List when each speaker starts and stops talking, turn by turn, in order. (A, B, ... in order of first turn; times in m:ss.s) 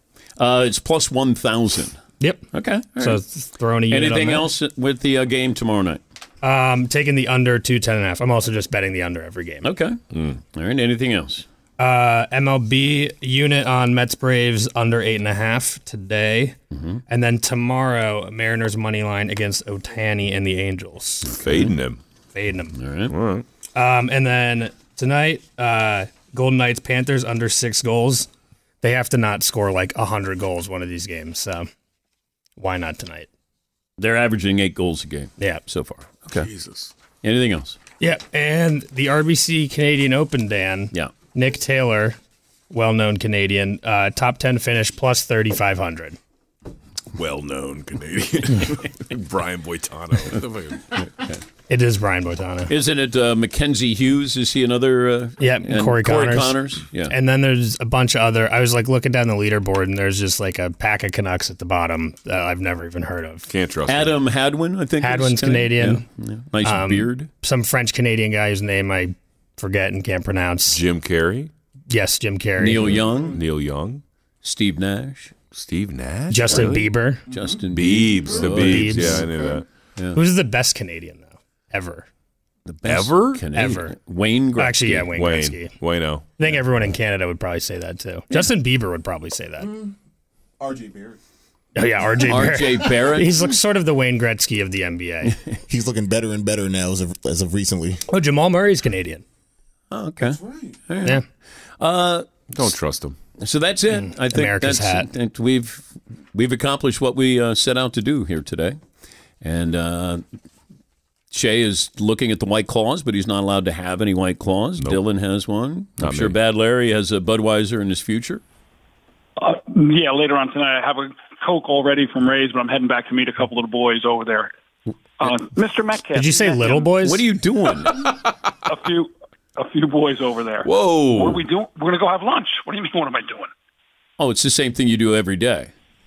0:00.4-0:02.0 A
0:02.2-0:04.5 B
0:02.5-0:03.2 A
0:03.9-0:06.0 A
0:06.4-0:09.7 B
0:09.6-0:11.4 A
0:10.1-0:10.4 C
0:11.8-0:16.6 B
0:16.7-0:17.0 A
0:17.1-0:21.3 B
0:21.3-0:22.0 C
0:22.4-0:22.8 B
0:22.8-0:23.1 A
0:23.1-0:23.4 C
0:23.8-0:28.3 B
0:28.8-0:31.7 B
0:32.6-0:33.3 B
0:34.0-0:36.5 A
0:36.3-0:36.9 C
0:37.2-0:37.8 A
0:38.0-0:42.2 B
0:42.7-0:46.2 B
0:47.1-0:51.0 C
0:51.0-0:51.4 A
0:51.7-0:52.7 B
0:52.7-0:57.1 A
0:55.4-0:56.6 B
0:57.1-1:03.5 B
1:03.5-1:04.2 C
1:03.9-1:07.3 A
1:05.0-1:06.0 B
1:06.6-1:10.8 B
1:10.7-1:11.5 C
1:11.9-1:13.0 B
1:12.6-1:13.4 A
1:13.2-1:14.0 C
1:14.4-1:15.3 A
1:15.5-1:16.9 C
1:16.3-1:17.2 B
1:17.3-1:19.3 A
1:17.7-1:19.7 C
1:18.4-1:19.3 B
1:20.2-1:22.1 B
1:22.7-1:25.2 A
1:22.9-1:23.4 C
1:23.5-1:24.0 B
1:24.6-1:25.7 B
1:25.1-1:26.3 C
1:26.4-1:29.8 B
1:30.7-1:31.1 D
1:31.8-1:35.3 B
1:32.3-1:33.6 A
1:35.7-1:38.0 D
1:38.1-1:39.2 B
1:39.9-1:41.2 A
1:41.8-1:42.3 A
1:42.5-1:43.2 C
1:43.4-1:48.8 A
1:44.1-1:45.1 B
1:49.4-1:50.2 A
1:51.3-1:58.4 A
1:56.0-1:56.4 C
1:59.4-2:04.5 E
2:05.2-2:06.9 E
2:06.1-2:07.2 B
2:07.0-2:08.0 A
2:08.7-2:13.5 E
2:10.6-2:11.4 C
2:14.2-2:15.7 A